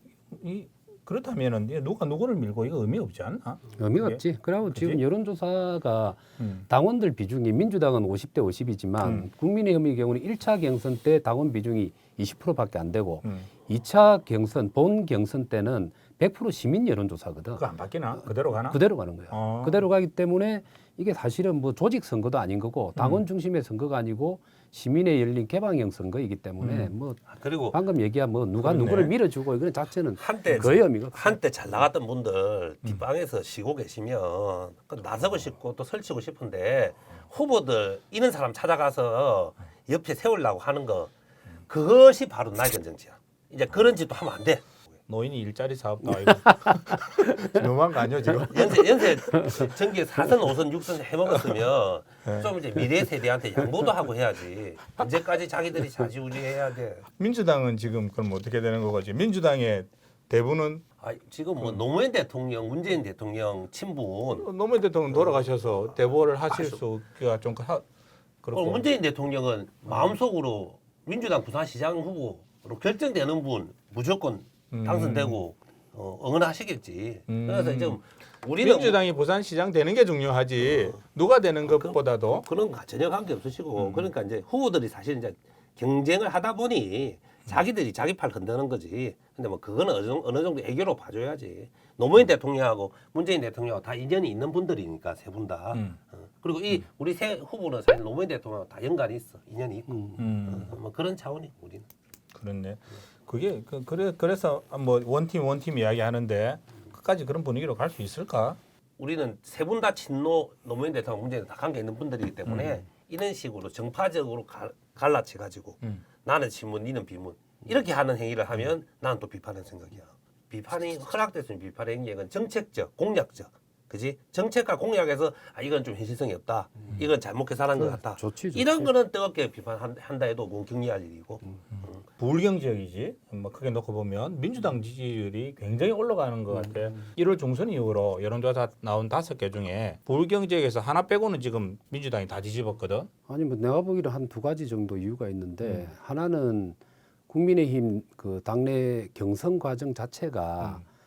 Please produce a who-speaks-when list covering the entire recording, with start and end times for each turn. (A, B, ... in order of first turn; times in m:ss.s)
0:00.3-0:05.0 A
0:03.8-0:17.6 B
0:06.4-0:06.6 A
0:09.0-0:09.3 A
0:13.2-0:13.5 A
0:17.6-0:19.8 A
0:18.2-0:31.4 B
0:23.0-0:23.2 A
0:26.6-0:26.9 A
0:27.3-0:27.8 C
0:28.6-0:29.1 A
0:30.2-0:41.1 C
0:41.6-0:44.7 C
0:45.1-0:49.0 A
0:47.4-0:47.6 B
0:48.4-0:57.1 C
0:52.2-0:52.8 A
0:57.2-1:00.8 A
1:01.0-1:04.5 C
1:04.3-1:07.8 A
1:05.1-1:05.5 C
1:06.5-1:06.8 C
1:08.4-1:08.8 A
1:08.5-1:19.0 C
1:09.9-1:10.1 A
1:14.7-1:15.4 A
1:17.3-1:18.0 A
1:18.6-1:22.4 A
1:21.6-1:41.8 C
1:23.8-1:24.1 A
1:40.2-1:40.7 A
1:42.3-1:48.6 A
1:49.0-2:12.0 C
1:52.4-1:52.8 A
2:07.7-2:08.9 B
2:11.8-2:23.1 A
2:23.3-2:26.8 B
2:25.6-2:25.9 A
2:27.3-2:30.8 B